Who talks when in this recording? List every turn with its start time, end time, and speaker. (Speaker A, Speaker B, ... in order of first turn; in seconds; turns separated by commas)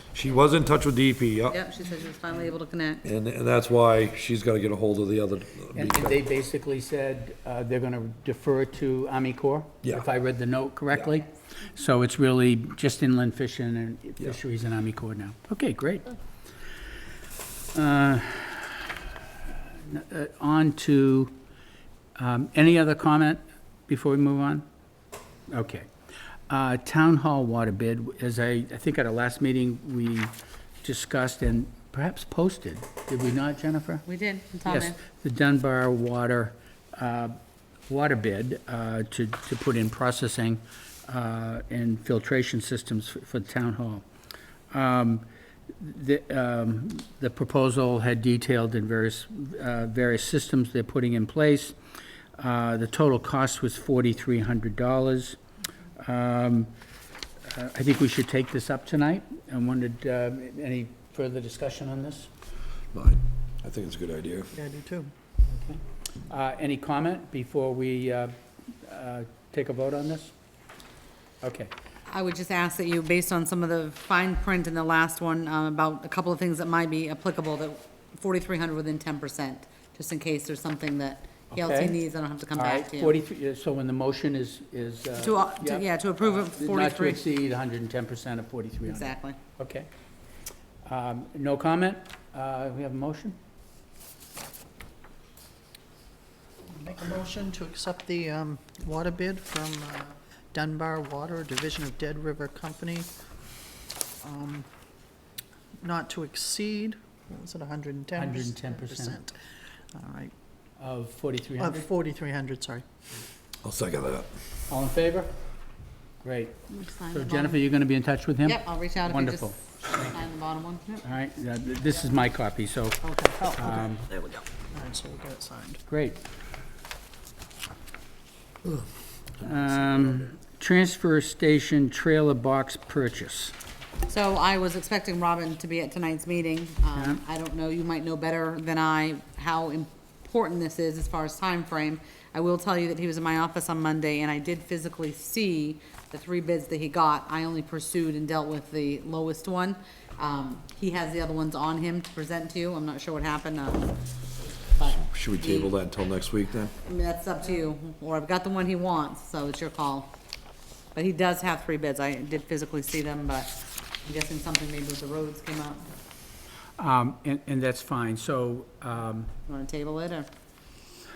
Speaker A: 0.1-1.6, Speaker B: 1.5-3.0, Speaker A: 3.0-6.2, Speaker C: 5.8-16.1, Speaker C: 17.7-18.9, Speaker C: 19.9-21.3, Speaker C: 22.2-24.6, Speaker C: 25.5-25.9, Speaker C: 26.5-34.1, Speaker B: 34.1-35.0, Speaker C: 34.6-44.0, Speaker C: 44.7-51.8, Speaker C: 52.4-55.4, Speaker C: 56.0-56.7, Speaker C: 57.5-62.3, Speaker A: 62.9-64.5, Speaker D: 64.5-65.1, Speaker C: 65.5-70.3, Speaker C: 71.4-71.7, Speaker B: 72.1-83.2, Speaker C: 81.5-82.0, Speaker C: 82.5-89.9, Speaker B: 85.2-87.3, Speaker B: 88.9-89.4, Speaker C: 90.8-93.4, Speaker D: 96.8-103.1, Speaker D: 104.2-104.7, Speaker D: 105.8-109.4, Speaker C: 108.1-109.2, Speaker D: 109.9-110.3, Speaker C: 110.8-111.9, Speaker D: 111.6-112.8, Speaker A: 113.6-114.3, Speaker C: 114.7-115.3, Speaker C: 116.2-119.6, Speaker B: 116.7-117.6, Speaker B: 118.4-121.0, Speaker C: 121.0-124.1, Speaker D: 123.0-125.8, Speaker C: 125.9-126.2, Speaker C: 129.4-133.5, Speaker B: 134.1-154.0, Speaker C: 136.9-137.2, Speaker B: 154.7-155.7, Speaker A: 154.9-156.8, Speaker B: 156.8-160.1, Speaker B: 160.9-165.9, Speaker C: 166.8-169.3, Speaker B: 169.5-170.3